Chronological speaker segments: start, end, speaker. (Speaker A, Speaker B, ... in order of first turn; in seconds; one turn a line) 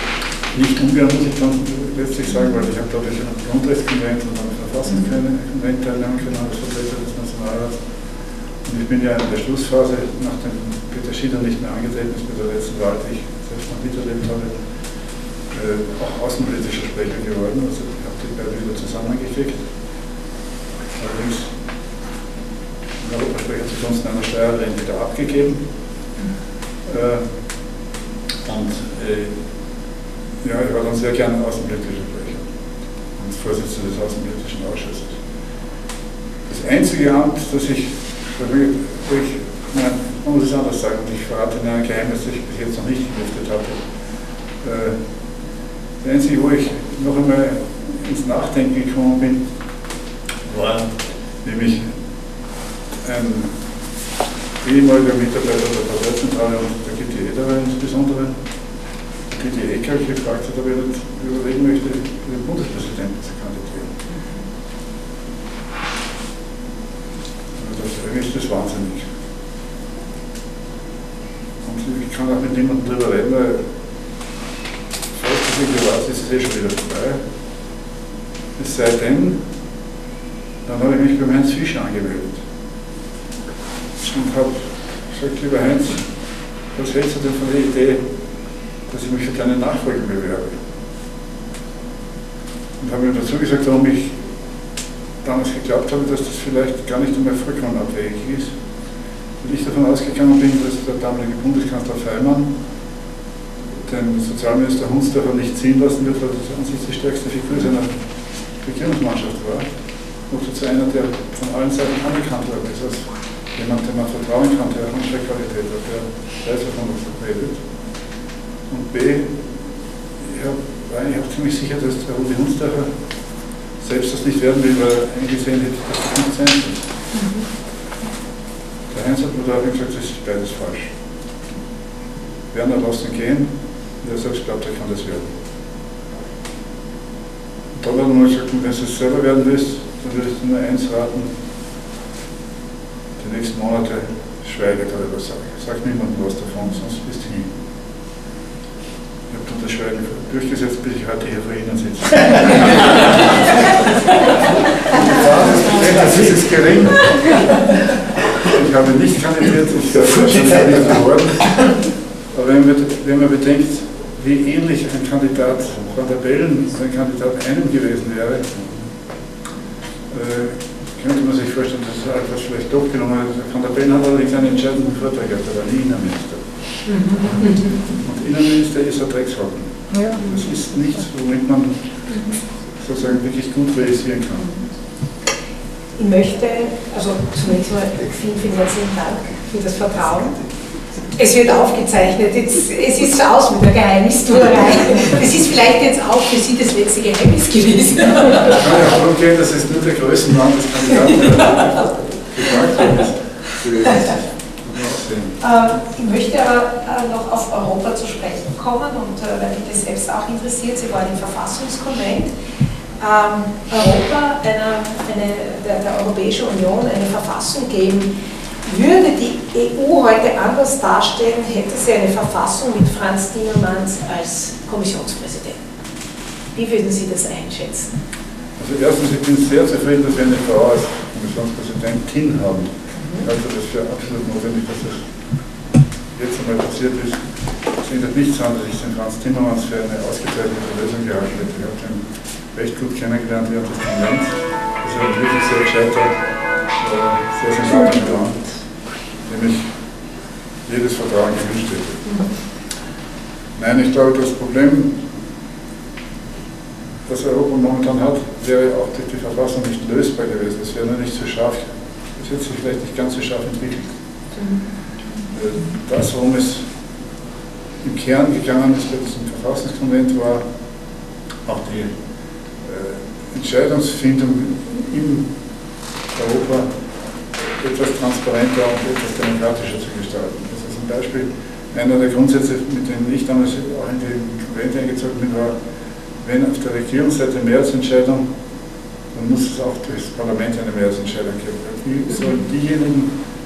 Speaker A: 0.5-7.8
Speaker A: 8.6-14.5
Speaker A: 15.5-19.6
Speaker A: 21.0-21.5
Speaker A: 23.0-25.6
Speaker A: 26.9-27.2
Speaker A: 28.4-29.3
Speaker A: 30.4-32.5
Speaker A: 33.2-35.1
Speaker A: 36.5-43.8
Speaker A: 44.6-45.0
Speaker A: 46.0-49.4
Speaker A: 50.5-51.9
Speaker A: 53.0-53.5
Speaker A: 54.6-58.4
Speaker A: 59.3-63.9
Speaker A: 67.6-69.1
Speaker A: 71.7-73.6
Speaker A: 75.1-77.2
Speaker A: 78.6-79.4
Speaker A: 80.7-82.4
Speaker A: 84.0-86.1
Speaker A: 86.7-88.0
Speaker A: 88.9-90.6
Speaker A: 92.8-94.2
Speaker A: 95.2-98.5
Speaker A: 99.4-102.5
Speaker A: 103.9-107.9
Speaker A: 108.6-109.7
Speaker A: 110.3-117.6
Speaker A: 118.7-119.5
Speaker A: 120.2-122.9
Speaker A: 123.8-126.8
Speaker A: 128.9-130.9
Speaker A: 132.5-133.5
Speaker A: 134.0-135.3
Speaker A: 137.8-141.3
Speaker A: 143.2-147.5
Speaker A: 149.3-153.0
Speaker A: 155.0-157.5
Speaker A: 158.4-161.6
Speaker A: 162.3-168.5
Speaker A: 170.1-176.4
Speaker B: 176.8-177.8
Speaker A: 177.3-181.8
Speaker B: 182.1-182.4
Speaker A: 182.8-184.5
Speaker B: 186.0-190.3
Speaker B: 191.1-198.6
Speaker A: 198.4-203.2
Speaker B: 203.7-204.1
Speaker A: 204.7-205.4
Speaker B: 205.4-212.3
Speaker B: 213.0-218.1
Speaker B: 218.7-225.6
Speaker B: 226.6-227.9
Speaker A: 228.6-235.0
Speaker A: 236.1-237.2
Speaker A: 237.8-246.2
Speaker A: 246.8-248.4
Speaker A: 249.2-249.7
Speaker A: 250.7-252.1
Speaker A: 253.6-255.0
Speaker A: 257.1-264.0
Speaker A: 265.3-266.7
Speaker A: 267.8-270.4
Speaker A: 271.5-271.9
Speaker A: 272.6-275.3
Speaker A: 276.1-276.7
Speaker A: 277.6-285.6
Speaker A: 286.2-288.3
Speaker A: 289.1-293.1